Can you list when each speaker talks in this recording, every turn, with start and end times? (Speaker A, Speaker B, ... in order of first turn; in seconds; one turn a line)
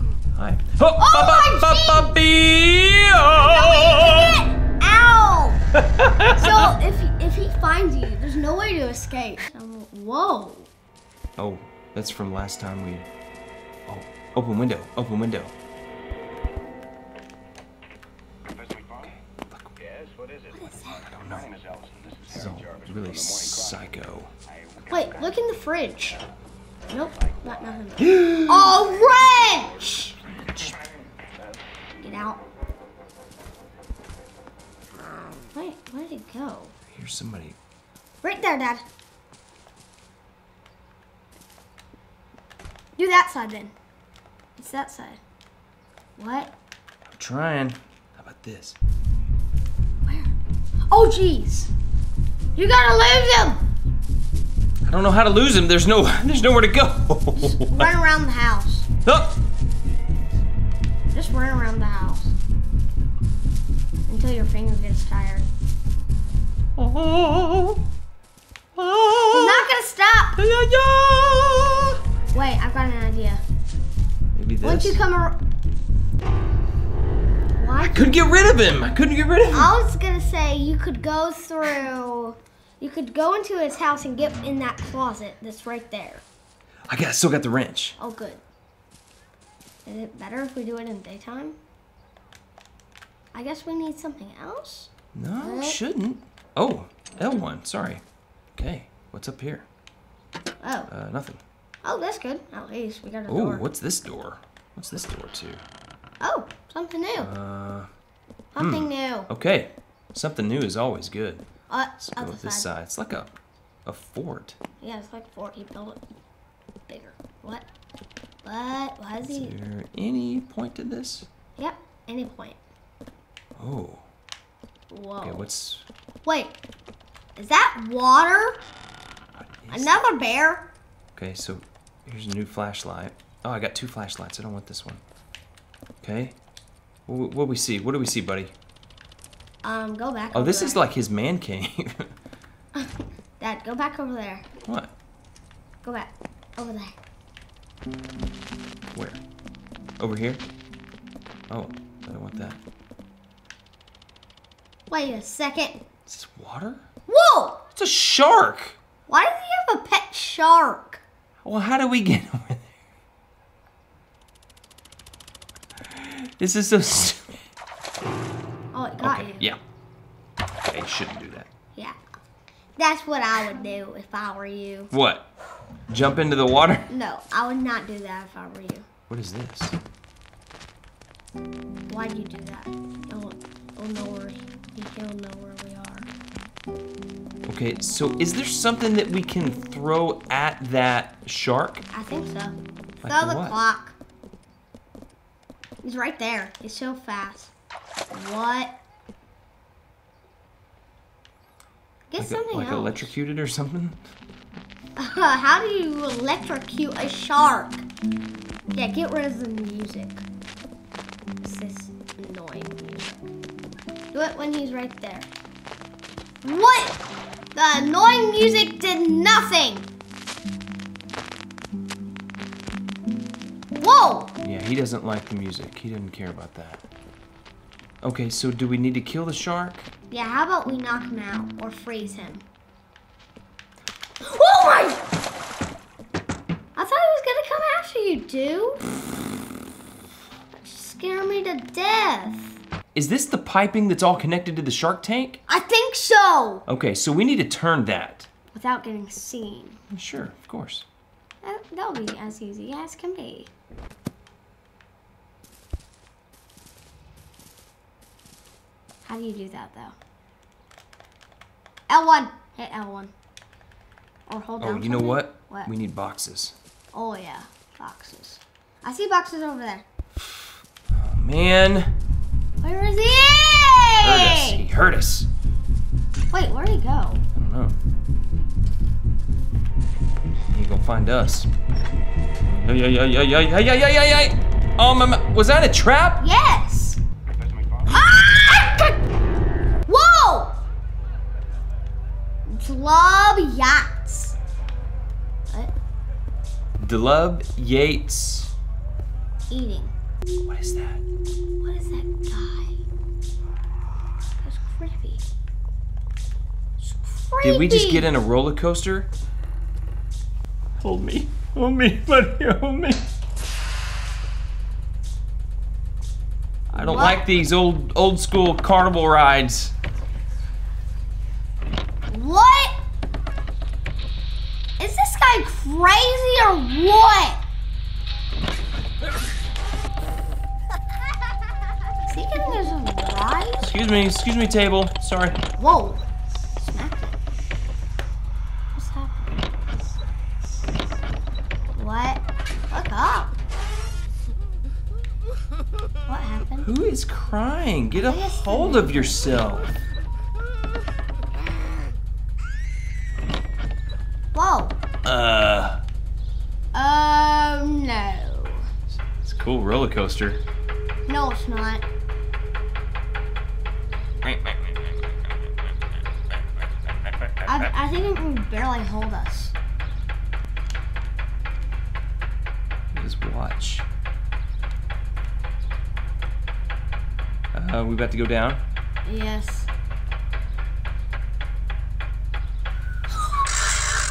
Speaker A: 0.3-4.4
Speaker B: 1.0-2.2
Speaker B: 3.4-5.7
Speaker A: 5.7-6.7
Speaker B: 6.3-10.7
Speaker A: 11.4-13.1
Speaker A: 13.9-15.5
Speaker A: 19.0-19.7
Speaker B: 20.5-21.1
Speaker A: 21.0-21.5
Speaker A: 22.3-24.3
Speaker B: 24.9-26.2
Speaker B: 26.9-30.1
Speaker A: 28.0-28.8
Speaker A: 29.9-30.8
Speaker B: 32.0-32.4
Speaker B: 35.5-36.8
Speaker A: 36.9-37.6
Speaker B: 38.2-38.9
Speaker B: 43.0-43.7
Speaker B: 44.6-45.2
Speaker B: 46.2-46.5
Speaker A: 47.1-48.8
Speaker B: 50.1-50.4
Speaker B: 50.9-51.7
Speaker B: 52.6-53.6
Speaker A: 54.9-57.9
Speaker B: 57.4-58.9
Speaker A: 59.1-59.4
Speaker B: 61.1-62.4
Speaker B: 64.1-65.5
Speaker A: 66.8-67.8
Speaker A: 68.8-69.7
Speaker B: 69.3-70.4
Speaker A: 70.4-72.0
Speaker B: 72.3-73.4
Speaker A: 74.3-75.0
Speaker B: 74.6-75.4
Speaker B: 77.6-78.2
Speaker A: 77.8-79.7
Speaker B: 79.5-86.2
Speaker A: 86.9-88.0
Speaker B: 88.0-88.4
Speaker B: 89.8-91.6
Speaker B: 93.3-95.8
Speaker A: 95.1-98.0
Speaker A: 98.5-99.7
Speaker B: 100.6-100.9
Speaker A: 100.9-101.4
Speaker B: 101.8-103.7
Speaker A: 103.3-105.6
Speaker B: 106.2-107.3
Speaker A: 107.2-107.9
Speaker B: 108.5-109.3
Speaker A: 108.6-111.5
Speaker B: 111.7-112.7
Speaker A: 112.0-114.6
Speaker B: 114.8-116.0
Speaker B: 116.9-117.7
Speaker B: 118.4-119.5
Speaker A: 119.3-121.3
Speaker B: 121.6-122.6
Speaker A: 123.6-124.0
Speaker B: 124.9-125.5
Speaker A: 125.2-125.9
Speaker B: 126.2-126.6
Speaker B: 127.4-128.6
Speaker A: 129.4-130.0
Speaker B: 129.7-130.7
Speaker A: 131.2-135.0
Speaker A: 136.0-136.4
Speaker A: 137.1-138.5
Speaker B: 139.6-140.9
Speaker A: 140.3-142.1
Speaker B: 142.8-144.4
Speaker A: 144.7-144.9
Speaker B: 145.8-147.0
Speaker A: 148.9-149.2
Speaker A: 150.0-150.4
Speaker A: 151.5-152.6
Speaker B: 154.9-155.8
Speaker A: 156.1-156.9
Speaker B: 157.1-157.7
Speaker A: 157.8-158.8
Speaker B: 159.1-161.0
Speaker A: 161.4-162.7
Speaker A: 165.8-167.4
Speaker B: 168.7-169.5
Speaker A: 169.0-169.6
Speaker A: 170.7-171.5
Speaker B: 171.7-172.0
Speaker B: 172.8-174.9
Speaker A: 174.9-175.3
Speaker A: 175.9-176.9
Speaker B: 176.9-178.9
Speaker A: 179.1-179.8
Speaker B: 181.9-186.1
Speaker A: 187.5-191.8
Speaker B: 191.9-194.0
Speaker A: 193.0-193.6
Speaker B: 195.8-197.5
Speaker B: 198.1-198.8
Speaker B: 202.1-203.1
Speaker A: 202.2-204.0
Speaker B: 205.0-207.9
Speaker B: 208.7-210.2
Speaker B: 211.4-213.3
Speaker B: 214.1-215.3
Speaker B: 216.4-217.0
Speaker B: 217.5-219.9
Speaker B: 223.8-224.4
Speaker A: 224.4-226.8
Speaker A: 228.0-229.9
Speaker B: 230.1-232.4
Speaker B: 234.2-235.0
Speaker B: 236.8-238.9
Speaker B: 240.5-242.6
Speaker A: 242.9-245.4
Speaker B: 245.5-246.7
Speaker A: 246.7-248.3
Speaker B: 248.5-249.8
Speaker A: 249.9-250.9
Speaker B: 251.4-253.5
Speaker B: 259.0-260.0
Speaker B: 261.9-263.1
Speaker B: 264.3-265.7
Speaker A: 264.6-266.6
Speaker B: 266.9-269.9
Speaker A: 270.2-271.9
Speaker B: 272.6-274.6
Speaker A: 274.0-275.3
Speaker B: 276.3-277.2
Speaker A: 277.4-277.8
Speaker A: 280.5-281.5
Speaker A: 282.5-286.2
Speaker B: 286.2-287.0
Speaker B: 287.9-289.0
Speaker B: 289.9-290.6
Speaker B: 292.5-294.4
Speaker A: 296.8-298.5
Speaker B: 299.5-299.9
Speaker A: 300.4-301.0
Speaker B: 301.6-302.8
Speaker B: 304.4-305.2
Speaker B: 306.8-308.1
Speaker A: 307.4-309.1
Speaker A: 310.8-313.1
Speaker A: 316.7-319.7
Speaker B: 316.7-317.2
Speaker B: 322.1-322.8
Speaker B: 324.8-327.4
Speaker B: 332.1-333.7
Speaker A: 333.6-335.4
Speaker B: 335.6-336.0
Speaker B: 336.6-337.1
Speaker B: 338.7-339.3
Speaker B: 341.7-343.3
Speaker B: 346.1-346.7
Speaker A: 346.6-349.7
Speaker B: 348.0-349.2
Speaker B: 354.3-354.8
Speaker A: 355.1-355.8
Speaker B: 356.7-358.7
Speaker A: 358.9-360.4
Speaker B: 361.1-361.8
Speaker A: 364.2-364.8
Speaker B: 367.4-369.6
Speaker A: 372.9-373.9
Speaker A: 377.5-378.6
Speaker B: 379.1-379.7